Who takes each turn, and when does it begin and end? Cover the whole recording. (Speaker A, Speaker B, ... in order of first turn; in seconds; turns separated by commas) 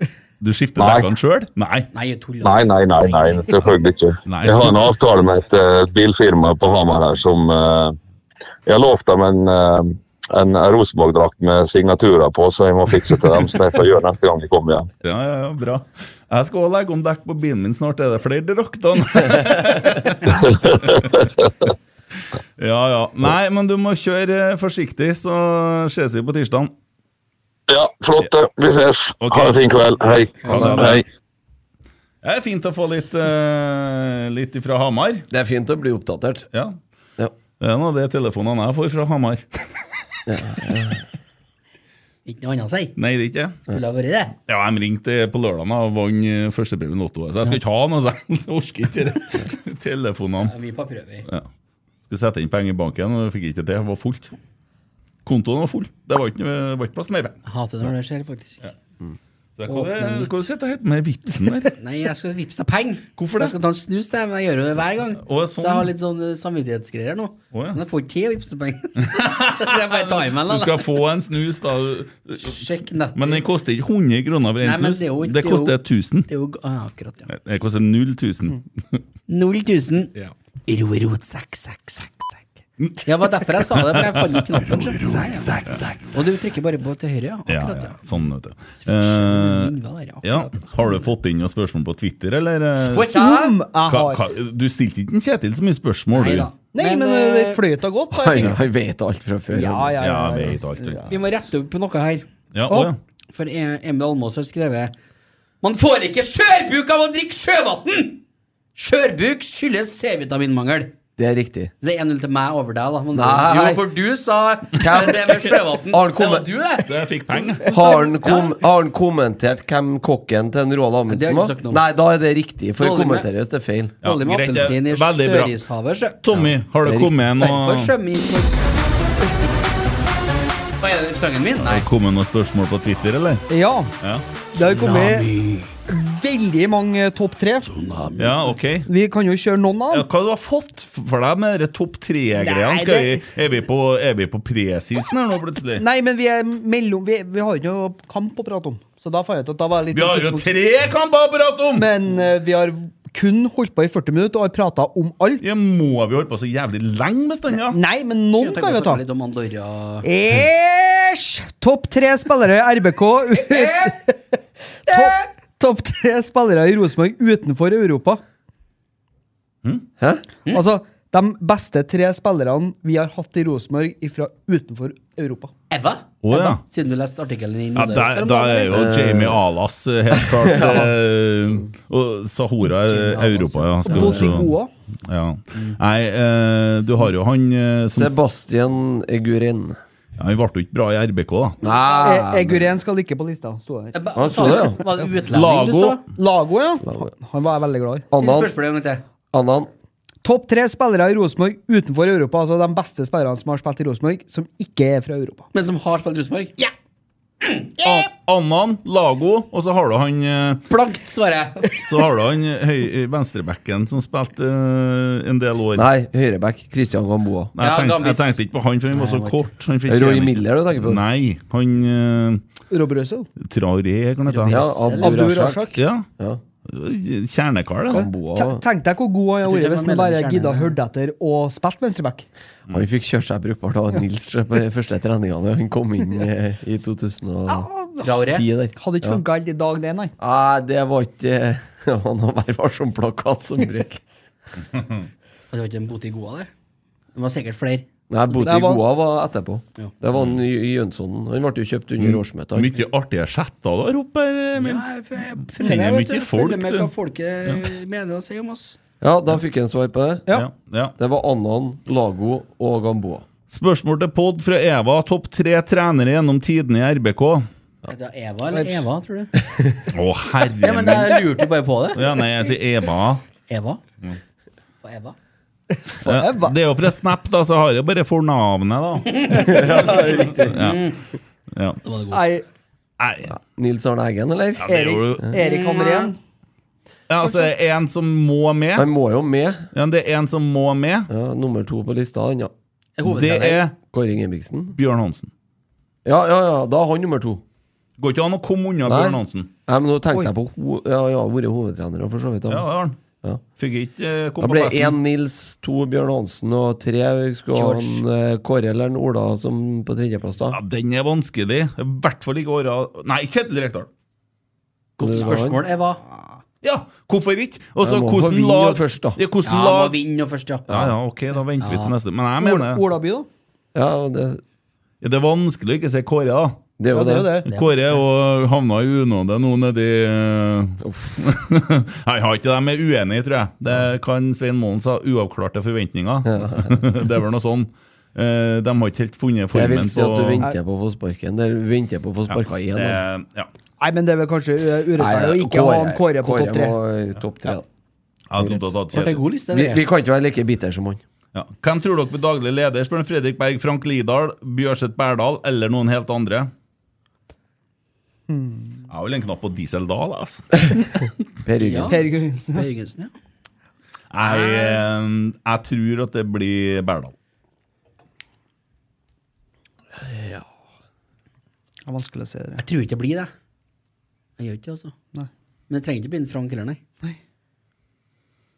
Speaker A: 0.4-1.9, Speaker B: 0.8-1.1, Speaker C: 1.9-3.5, Speaker B: 2.4-8.0, Speaker A: 4.3-4.7, Speaker B: 8.7-14.9, Speaker A: 15.0-21.1, Speaker B: 20.3-21.3, Speaker A: 22.6-26.7, Speaker B: 27.7-31.1, Speaker A: 29.2-31.0, Speaker D: 30.5-30.9, Speaker A: 32.2-35.3, Speaker D: 35.3-36.5, Speaker A: 37.6-39.5, Speaker D: 40.3-41.0, Speaker C: 42.2-43.0, Speaker A: 43.0-43.6, Speaker C: 43.7-44.4, Speaker A: 44.5-50.5, Speaker C: 50.4-51.3, Speaker A: 52.1-54.3, Speaker A: 55.2-57.4, Speaker C: 57.5-58.6, Speaker A: 59.6-61.7, Speaker C: 59.7-60.3, Speaker C: 61.8-70.9, Speaker A: 63.2-63.6, Speaker A: 65.2-65.9, Speaker A: 67.5-67.8, Speaker A: 69.1-72.6, Speaker C: 72.4-73.5, Speaker A: 73.2-76.3, Speaker C: 74.6-77.3, Speaker A: 77.3-79.0, Speaker C: 79.3-80.1, Speaker C: 80.7-82.4, Speaker C: 83.0-88.0, Speaker A: 83.8-84.1, Speaker A: 85.6-86.0, Speaker A: 87.5-93.1, Speaker C: 88.8-91.1, Speaker C: 92.8-93.6, Speaker E: 93.1-94.2, Speaker A: 93.9-96.5, Speaker C: 96.1-97.6, Speaker E: 96.7-98.5, Speaker D: 98.1-100.0, Speaker E: 99.5-101.1, Speaker A: 100.0-101.0, Speaker C: 101.1-102.3, Speaker A: 102.5-103.0, Speaker C: 103.3-105.0, Speaker C: 105.6-108.2, Speaker C: 108.8-110.9, Speaker D: 111.2-111.7, Speaker C: 111.8-118.5, Speaker D: 113.1-113.9, Speaker D: 114.8-116.5, Speaker A: 116.9-117.7, Speaker D: 117.7-124.0, Speaker C: 121.1-121.8, Speaker C: 122.8-123.3, Speaker C: 124.0-126.2, Speaker A: 124.0-125.5, Speaker A: 126.2-127.9, Speaker D: 126.8-127.1, Speaker C: 127.4-128.6, Speaker C: 130.8-131.9, Speaker A: 131.6-133.4, Speaker E: 133.5-133.9, Speaker E: 134.6-135.3, Speaker C: 134.6-135.8, Speaker E: 135.9-137.7, Speaker C: 137.8-138.2, Speaker A: 138.2-138.9, Speaker E: 138.9-140.1, Speaker A: 139.9-145.8, Speaker E: 142.4-143.2, Speaker E: 145.8-150.5, Speaker A: 149.9-151.9, Speaker E: 151.8-155.4, Speaker A: 155.4-157.8, Speaker E: 157.7-159.0, Speaker C: 158.4-160.1, Speaker E: 160.0-164.1, Speaker C: 163.3-164.0, Speaker E: 164.9-168.2, Speaker D: 170.0-170.2, Speaker E: 170.5-175.5, Speaker C: 175.7-178.7, Speaker A: 176.2-176.6, Speaker A: 177.8-184.5, Speaker D: 178.7-179.4, Speaker D: 180.2-180.9, Speaker C: 182.8-184.3, Speaker E: 183.8-184.7, Speaker A: 185.1-188.2, Speaker D: 187.9-189.8, Speaker A: 190.2-191.6, Speaker D: 191.6-192.7, Speaker C: 191.6-192.1, Speaker E: 192.0-194.0, Speaker C: 193.9-196.0, Speaker D: 194.2-194.8, Speaker A: 195.3-196.0, Speaker E: 196.2-198.1, Speaker D: 198.1-198.5, Speaker C: 198.2-199.0, Speaker D: 199.3-199.7, Speaker E: 200.2-205.5, Speaker C: 205.5-206.7, Speaker C: 207.4-207.8, Speaker A: 207.8-210.7, Speaker C: 210.7-211.7, Speaker A: 211.8-215.9, Speaker D: 215.8-217.5, Speaker A: 217.6-222.4, Speaker C: 217.6-218.4, Speaker C: 218.9-219.5, Speaker D: 219.9-221.0, Speaker E: 222.7-223.3, Speaker A: 223.4-224.6, Speaker C: 224.3-225.2, Speaker D: 224.5-226.4, Speaker E: 225.0-225.8, Speaker A: 225.7-226.1, Speaker A: 226.7-228.1, Speaker D: 227.9-228.6, Speaker E: 227.9-232.3, Speaker C: 229.4-230.8, Speaker D: 232.7-237.7, Speaker E: 237.5-238.1, Speaker C: 238.0-238.4, Speaker D: 238.3-239.2, Speaker E: 238.8-240.1, Speaker D: 240.2-244.0, Speaker C: 245.5-246.5, Speaker C: 247.2-247.9, Speaker D: 248.1-252.7, Speaker E: 248.4-248.8, Speaker A: 252.0-254.8, Speaker C: 254.6-258.8, Speaker A: 255.5-256.9, Speaker D: 259.0-260.2, Speaker A: 260.3-260.9, Speaker D: 261.0-263.3, Speaker A: 263.5-267.5, Speaker C: 267.9-269.4, Speaker E: 268.5-268.8, Speaker A: 269.9-271.1, Speaker C: 270.6-272.0, Speaker A: 271.9-273.2, Speaker C: 273.5-273.8, Speaker C: 274.8-275.1, Speaker E: 275.9-276.6, Speaker A: 276.0-280.9, Speaker C: 279.1-279.8, Speaker D: 279.5-280.6, Speaker C: 280.4-281.0, Speaker A: 281.5-281.8, Speaker C: 281.8-282.2, Speaker E: 282.1-282.4, Speaker A: 283.0-283.3, Speaker D: 283.3-285.3, Speaker A: 284.6-285.3, Speaker E: 284.6-286.2, Speaker C: 285.4-286.1, Speaker A: 287.1-288.9, Speaker D: 288.8-289.7, Speaker A: 289.7-291.1, Speaker D: 291.1-292.5, Speaker C: 293.0-293.7, Speaker A: 293.1-293.8, Speaker D: 293.9-294.8, Speaker A: 294.8-295.3, Speaker D: 296.1-297.4, Speaker A: 298.0-299.5, Speaker D: 298.9-302.7, Speaker A: 302.5-303.0, Speaker A: 303.6-305.0, Speaker D: 304.4-310.6, Speaker C: 307.5-308.0, Speaker A: 310.5-313.9, Speaker C: 315.0-316.0, Speaker D: 315.0-315.6, Speaker A: 316.6-319.9, Speaker D: 317.8-319.2, Speaker C: 319.4-320.9, Speaker A: 320.7-322.8, Speaker C: 321.6-321.9, Speaker E: 322.4-323.3, Speaker D: 323.7-324.4, Speaker A: 325.0-326.6, Speaker D: 326.8-327.4, Speaker E: 326.9-327.5, Speaker C: 327.5-328.0, Speaker A: 327.5-340.4, Speaker D: 330.8-331.2, Speaker D: 336.3-336.9, Speaker D: 339.5-343.0, Speaker A: 342.3-343.5, Speaker E: 343.8-346.8, Speaker D: 345.0-347.6, Speaker A: 348.3-349.2, Speaker C: 348.9-349.8, Speaker D: 349.5-351.0, Speaker A: 351.3-356.5, Speaker E: 358.3-358.8, Speaker A: 358.9-360.5, Speaker D: 361.4-362.0, Speaker C: 361.6-363.1, Speaker E: 361.9-362.7, Speaker A: 364.1-367.1, Speaker C: 364.3-364.8, Speaker E: 371.9-372.6, Speaker C: 372.6-373.3, Speaker C: 374.4-374.9, Speaker C: 375.7-376.8